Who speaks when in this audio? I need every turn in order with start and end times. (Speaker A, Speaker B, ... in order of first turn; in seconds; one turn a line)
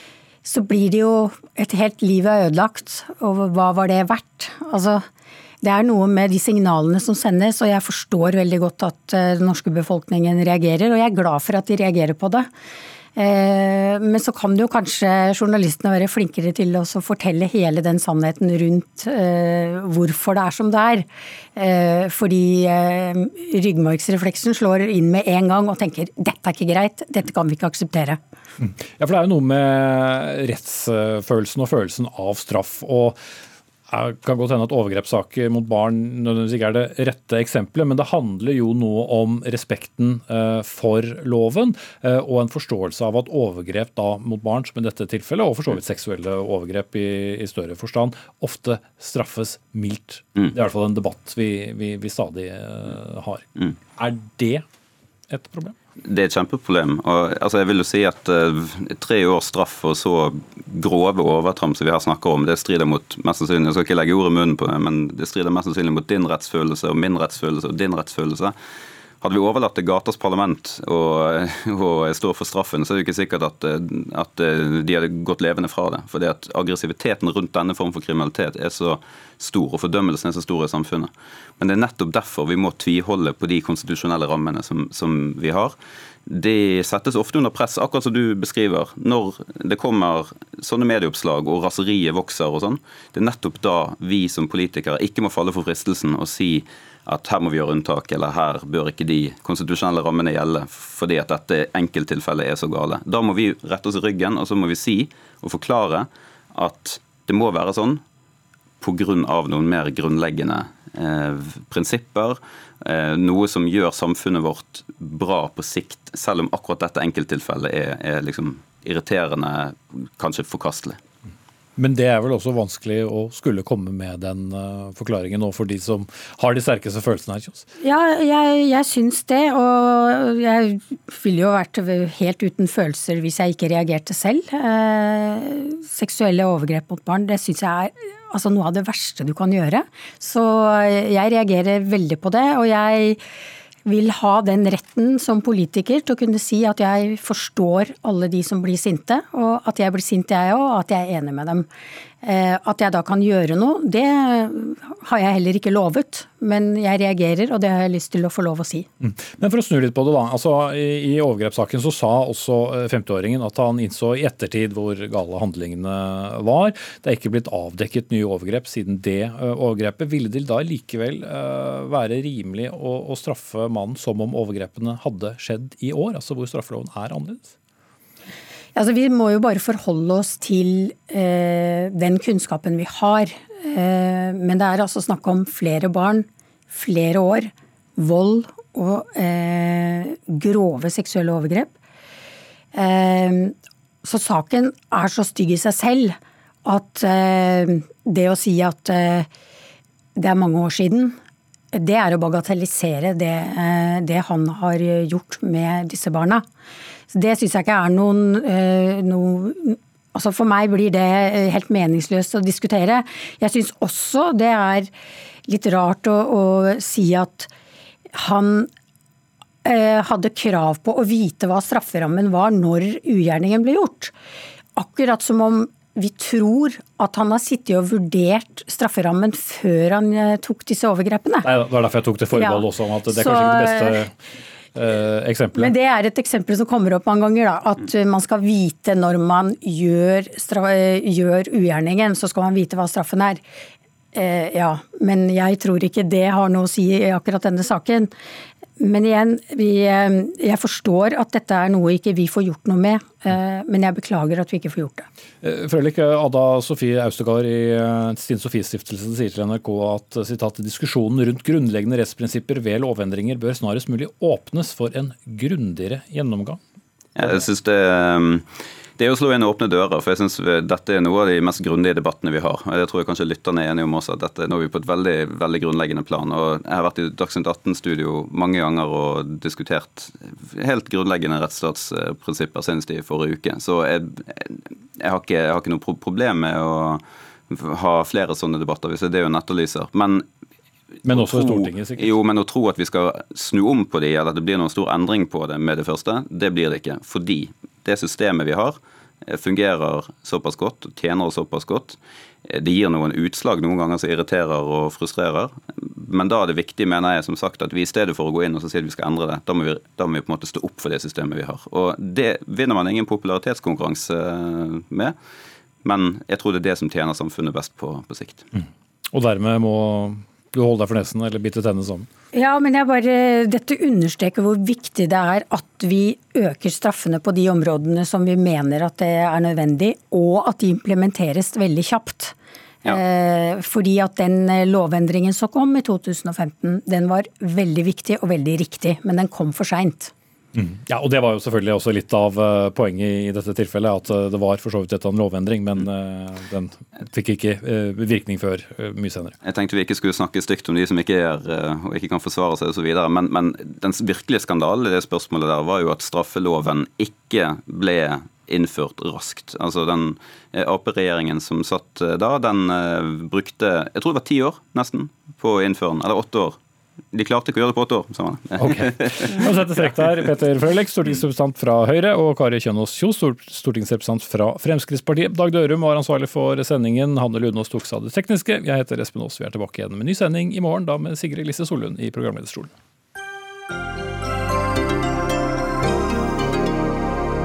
Speaker A: 0.4-5.0
Speaker A: 5.6-12.5
Speaker A: 13.2-28.2
Speaker B: 28.6-33.2
Speaker B: 33.9-54.6
Speaker B: 55.3-55.8
Speaker C: 56.0-68.5
Speaker C: 69.2-85.7
Speaker C: 86.3-108.0
Speaker C: 108.8-121.0
Speaker B: 121.8-127.6
Speaker A: 127.8-143.2
Speaker A: 143.8-151.7
Speaker A: 152.2-158.9
Speaker B: 159.0-177.5
Speaker A: 178.7-191.7
Speaker A: 192.7-199.3
Speaker A: 200.2-201.2
Speaker A: 201.7-206.4
Speaker A: 207.1-214.9
Speaker A: 215.5-217.5
Speaker A: 218.1-218.7
Speaker A: 219.6-224.1
Speaker A: 224.8-231.5
Speaker B: 231.4-234.1
Speaker A: 232.3-234.0
Speaker B: 234.8-235.7
Speaker A: 235.6-243.4
Speaker A: 244.1-248.1
Speaker A: 248.8-255.1
Speaker B: 255.4-266.6
Speaker C: 267.1-268.4
Speaker C: 269.0-290.2
Speaker B: 291.0-292.1
Speaker C: 291.1-315.1
Speaker C: 315.8-318.4
Speaker B: 318.6-322.1
Speaker A: 322.3-332.3
Speaker A: 332.9-340.1
Speaker B: 340.5-349.4
Speaker C: 349.4-366.6
Speaker C: 367.1-369.6
Speaker B: 368.6-382.7